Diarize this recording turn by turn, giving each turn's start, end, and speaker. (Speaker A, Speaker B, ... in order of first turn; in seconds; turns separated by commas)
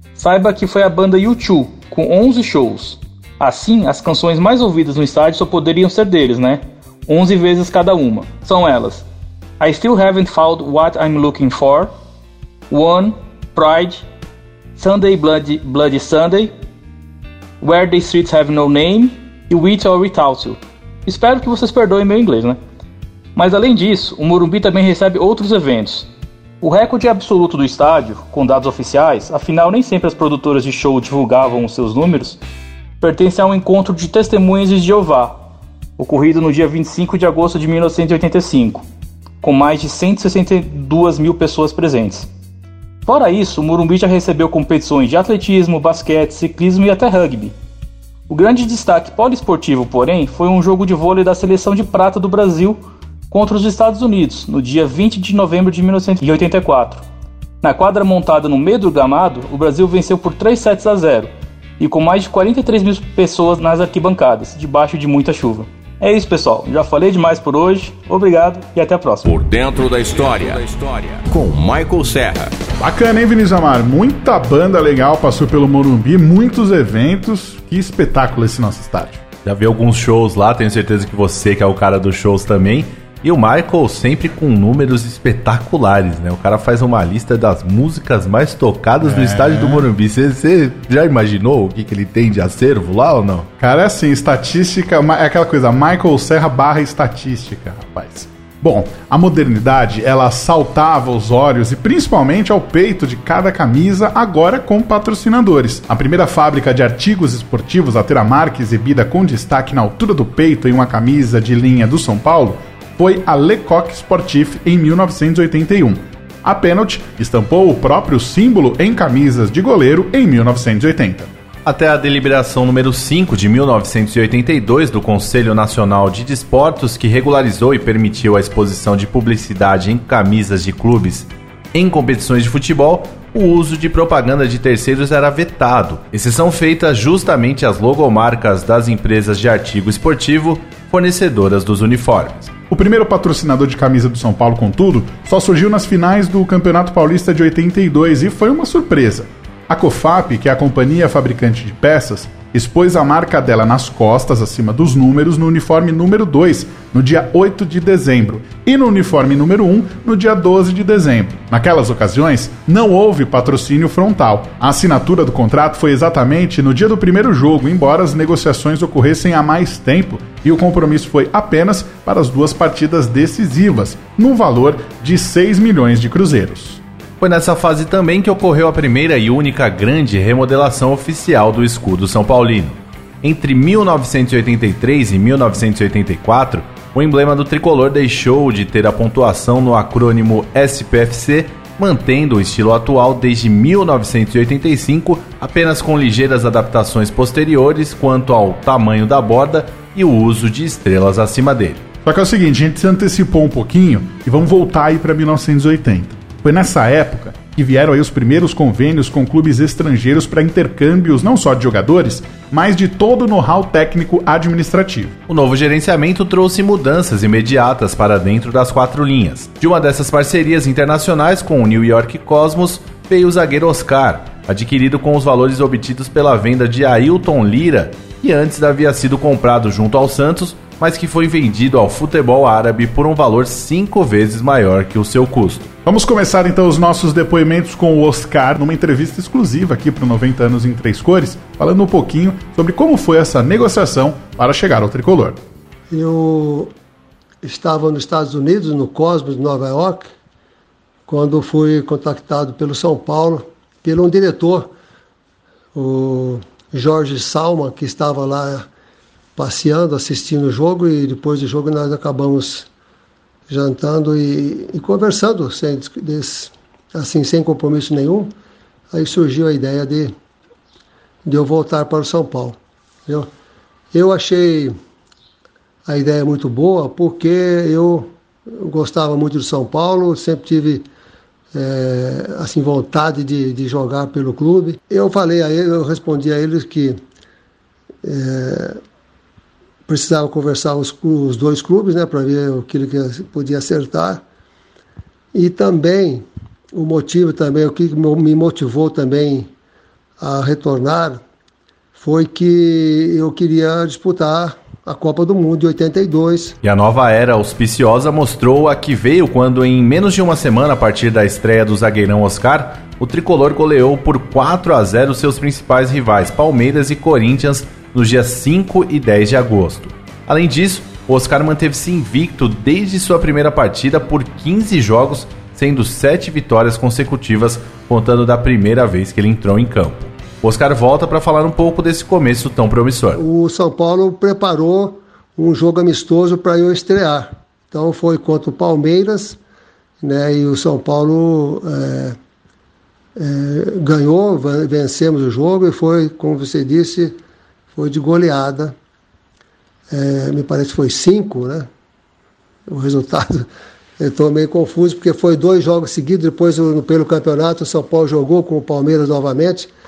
Speaker A: 0.1-9.1, Speaker A: 9.6-11.9, Speaker A: 12.7-14.1, Speaker A: 14.8-16.5, Speaker A: 17.6-22.6, Speaker A: 23.4-26.1, Speaker A: 26.6-32.4, Speaker A: 33.0-35.4, Speaker A: 36.0-38.9, Speaker A: 39.4-42.3, Speaker A: 43.0-47.5, Speaker A: 48.3-57.0, Speaker A: 57.6-69.3, Speaker B: 69.2-72.5, Speaker C: 72.8-79.2, Speaker D: 79.5-93.5, Speaker C: 89.0-89.9, Speaker C: 93.6-121.3, Speaker D: 121.7-142.5, Speaker C: 142.7-176.8, Speaker D: 177.2-201.8, Speaker C: 202.1-215.2, Speaker D: 215.3-235.7, Speaker C: 235.8-245.4, Speaker E: 245.9-246.7, Speaker E: 247.4-250.1, Speaker E: 251.1-254.7, Speaker E: 255.8-258.7, Speaker E: 259.4-262.7, Speaker E: 263.5-268.3, Speaker E: 268.9-270.1, Speaker E: 271.2-273.3, Speaker E: 273.9-274.8, Speaker E: 275.9-280.9, Speaker E: 281.5-287.0, Speaker E: 288.0-288.8, Speaker E: 289.9-294.2, Speaker E: 295.3-299.5, Speaker E: 300.2-301.2, Speaker E: 302.0-306.6, Speaker D: 306.6-333.2, Speaker E: 333.1-339.4, Speaker E: 340.0-342.2, Speaker E: 343.2-347.2, Speaker E: 347.8-348.8, Speaker E: 349.9-351.7, Speaker E: 352.7-353.5, Speaker E: 354.0-359.7